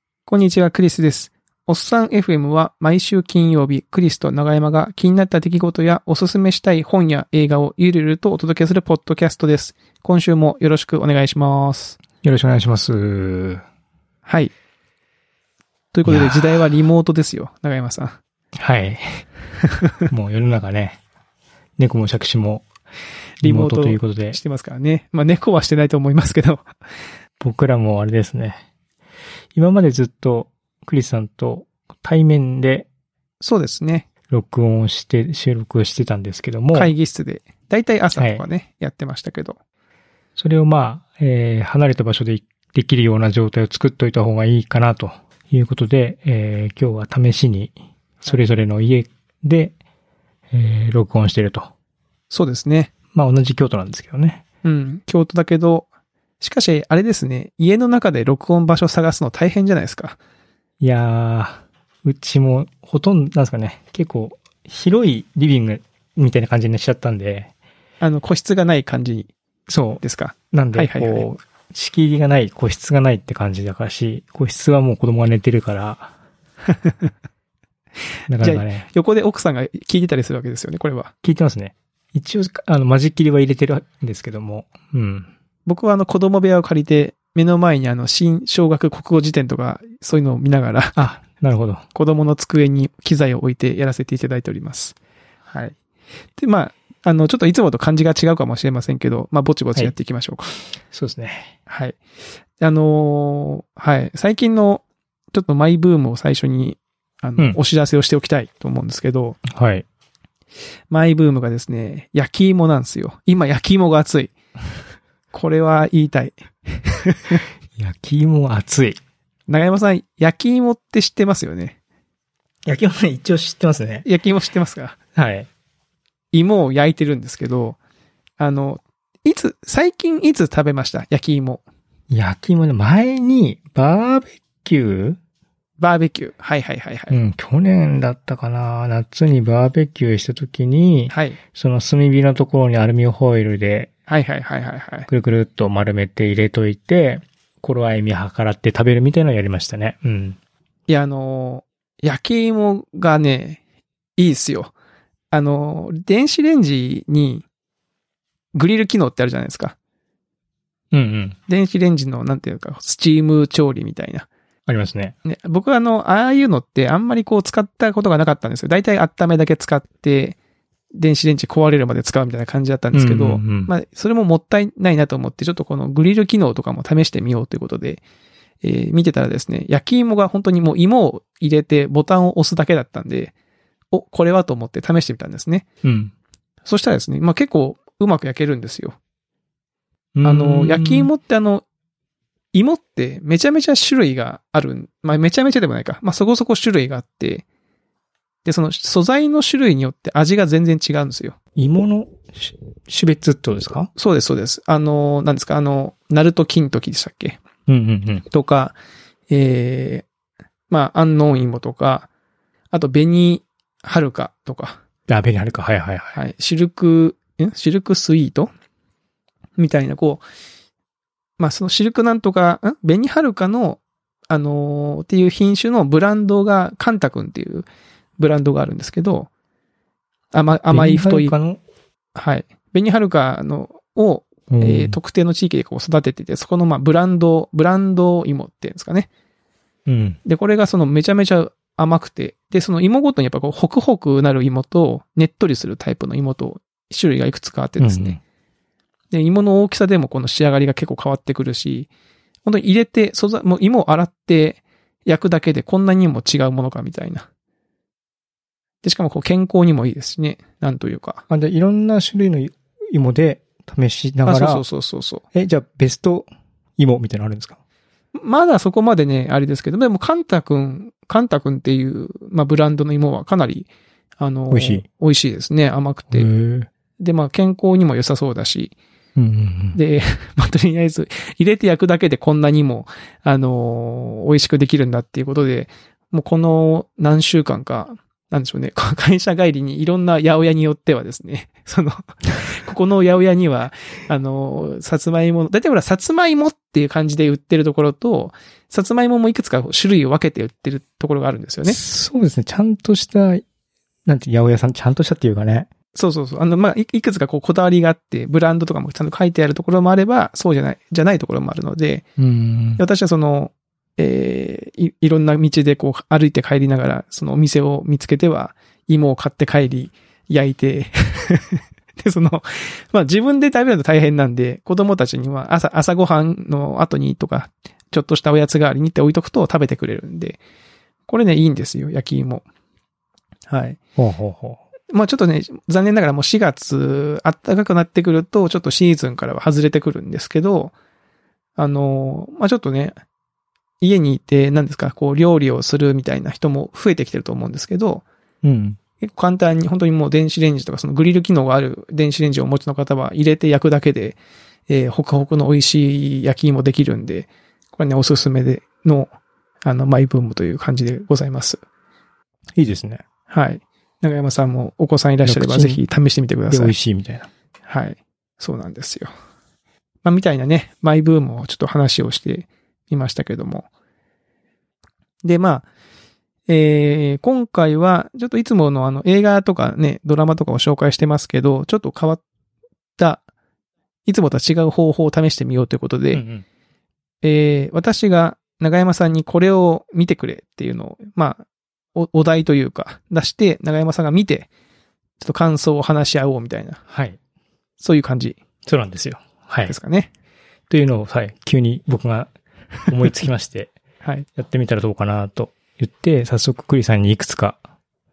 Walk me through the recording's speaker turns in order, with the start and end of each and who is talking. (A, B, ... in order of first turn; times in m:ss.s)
0:00.3-0:12.0 A
0:12.2-0:13.6 B
0:14.2-0:14.5 A
0:15.9-0:18.2 A
0:16.0-0:16.6 B
0:18.5-0:19.2 B
0:20.1-0:21.0 B
0:21.8-0:22.6 B
0:23.4-0:24.4 B
0:23.4-0:26.6 A
0:27.4-0:28.6 B
0:29.5-0:32.9 B
0:33.4-0:34.0 A
0:34.3-0:36.9 B
0:36.7-0:39.6 A
0:38.2-0:38.4 B
0:40.4-0:47.7 B
0:48.3-0:49.7 B
0:50.5-0:51.7 B
0:52.3-0:52.9 A
0:53.1-0:54.4 B
0:54.6-0:55.9 A
0:56.4-1:00.2 A
1:00.8-1:07.5 B
1:08.0-1:09.3 A
1:09.7-1:16.1 B
1:10.0-1:11.3 A
1:18.3-1:18.8 B
1:18.4-1:21.1 A
1:21.2-1:25.3 B
1:25.7-1:31.0 A
1:31.0-1:31.8 B
1:31.9-1:34.9 A
1:35.5-1:35.8 A
1:36.4-1:40.5 A
1:40.9-1:41.5 B
1:41.7-1:42.0 A
1:42.6-1:49.4 A
1:49.4-1:49.8 B
1:50.9-1:54.3 A
1:55.3-1:57.4 A
1:57.8-1:59.0 B
1:59.5-2:01.8 A
2:02.6-2:04.0 B
2:04.0-2:05.0 A
2:05.1-2:05.5 B
2:06.3-2:07.8 A
2:08.4-2:11.6 A
2:12.1-2:15.2 B
2:15.8-2:17.2 A
2:17.1-2:23.9 B
2:21.1-2:21.4 A
2:24.1-2:25.1 A
2:25.1-2:30.4 B
2:30.9-2:33.6 A
2:34.2-2:34.7 A
2:35.3-2:37.4 A
2:38.5-2:39.8 A
2:40.9-2:41.4 B
2:41.5-2:44.3 A
2:44.7-2:45.1 B
2:45.2-2:50.4 A
2:50.9-2:58.0 A
2:52.9-2:53.7 B
2:58.6-3:03.3 A
3:03.9-3:05.6 A
3:05.8-3:06.1 B
3:06.6-3:09.0 A
3:10.1-3:11.1 B
3:10.2-3:11.6 A
3:12.5-3:17.4 A
3:18.4-3:21.4 A
3:21.6-3:23.9 B
3:24.0-3:27.4 A
3:27.7-3:28.2 B
3:28.3-3:28.8 A
3:29.3-3:30.0 A
3:30.7-3:32.1 A
3:32.7-3:34.8 A
3:35.1-3:36.2 B
3:36.1-3:38.5 A
3:39.6-3:40.2 A
3:41.4-3:47.7 A
3:48.2-3:49.3 A
3:50.3-3:51.3 A
3:50.7-3:51.6 B
3:52.1-3:59.1 A
3:54.5-3:55.0 B
3:59.8-4:00.2 B
4:00.2-4:08.2 A
4:07.8-4:08.2 B
4:09.1-4:11.9 A
4:12.4-4:17.3 A
4:18.8-4:21.2 A
4:21.3-4:24.6 B
4:24.2-4:25.2 A
4:25.3-4:27.6 B
4:28.1-4:33.7 A
4:34.2-4:36.3 A
4:34.5-4:34.8 B
4:36.1-4:36.7 B
4:37.0-4:38.7 A
4:39.2-4:39.8 B
4:39.7-5:01.8 A
5:01.6-5:03.4 B
5:04.0-5:05.7 B
5:05.9-5:12.0 A
5:12.2-5:12.8 B
5:12.8-5:30.4 A
5:31.1-5:32.4 A
5:33.5-5:33.8 A
5:34.0-5:34.6 B
5:34.9-5:40.7 A
5:41.6-5:42.9 A
5:43.8-5:48.0 A
5:48.4-5:48.8 B
5:49.0-5:54.2 A
5:54.7-5:59.1 A
5:59.6-6:01.6 A
6:02.6-6:03.0 B
6:03.3-6:06.7 A
6:05.2-6:05.8 B
6:06.5-6:07.3 B
6:07.7-6:09.1 A
6:10.0-6:13.7 A
6:15.2-6:15.7 A
6:16.5-6:22.2 A
6:24.0-6:26.2 A
6:26.1-6:26.4 B
6:27.2-6:31.4 A
6:31.9-6:34.5 A
6:35.2-6:36.8 A
6:36.9-6:37.2 B
6:37.8-6:38.4 A
6:38.6-6:39.7 B
6:39.6-6:40.1 A
6:40.7-6:42.3 B
6:42.9-6:43.7 B
6:44.4-6:47.6 B